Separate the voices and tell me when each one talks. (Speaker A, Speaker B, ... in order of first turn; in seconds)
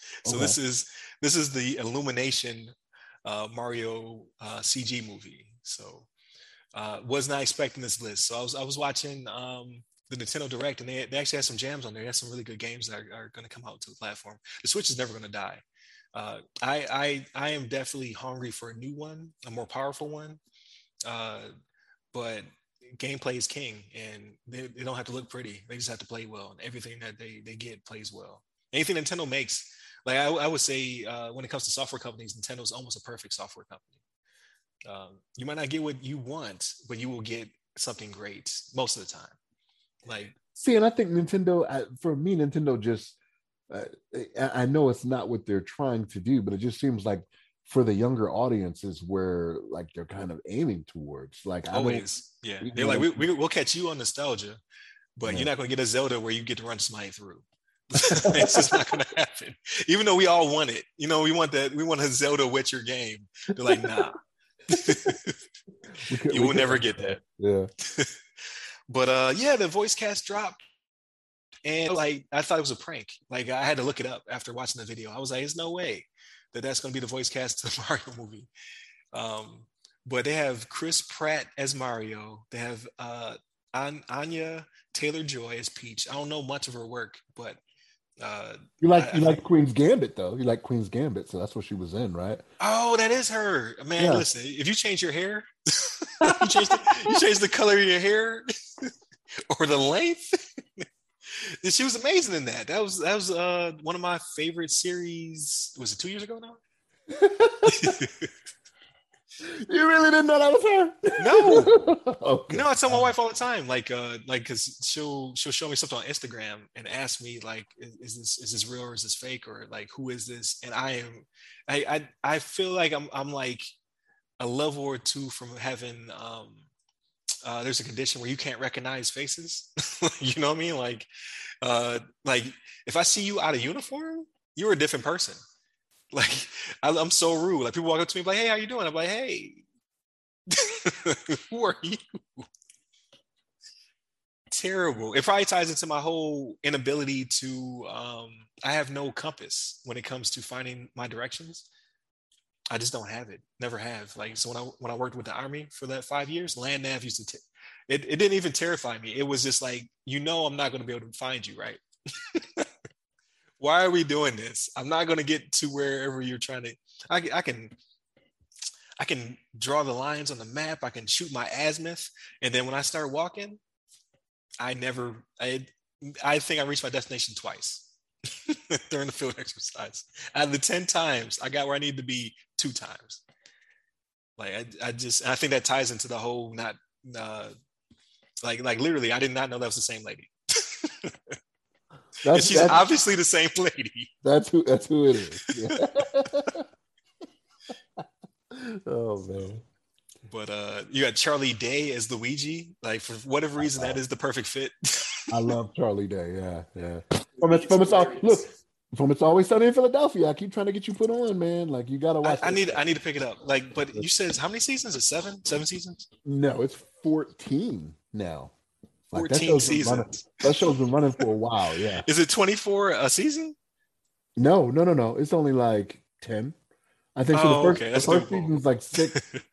Speaker A: 0.2-2.7, 3.2-6.1, 6.7-15.6, 16.1-20.4, 21.1-21.5, 22.1-33.9, 34.9-39.4, 40.1-40.4, 51.7-54.6, 55.2-65.4, 66.3-67.2, 67.8-68.2, 68.9-70.6, 71.7-78.5, 79.1-87.6, 88.2-89.4, 92.6-98.9, 99.5-106.6, 107.7-108.3, 111.2-111.7, 112.5-123.7, 124.4-126.7, 127.4-131.1, 131.6-135.4, 136.1-139.6, 140.5-142.5, 144.5-151.7, 152.7-162.7, 163.6-167.8, 169.0-173.6, 174.6-183.2, 184.4-187.5, 188.4-191.3, 192.3-194.1, 195.4-195.8, 200.3-205.5, 207.4-208.4, 212.2-216.1, 219.1-221.2, 222.0-223.6, 227.3-228.5, 229.1-229.4
Speaker B: 0.3-0.6, 40.6-43.2, 43.7-52.1, 52.6-53.2, 58.0-58.9, 63.7-64.0, 64.7-65.2, 66.0-67.7, 88.8-92.4, 94.0-94.3, 96.2-97.2, 107.1-108.0, 109.4-113.1, 192.2-192.8, 194.2-196.7, 198.5-199.6, 203.6-204.0, 205.3-212.8, 216.2-218.5, 219.1-222.1, 224.4-226.5, 227.2-229.2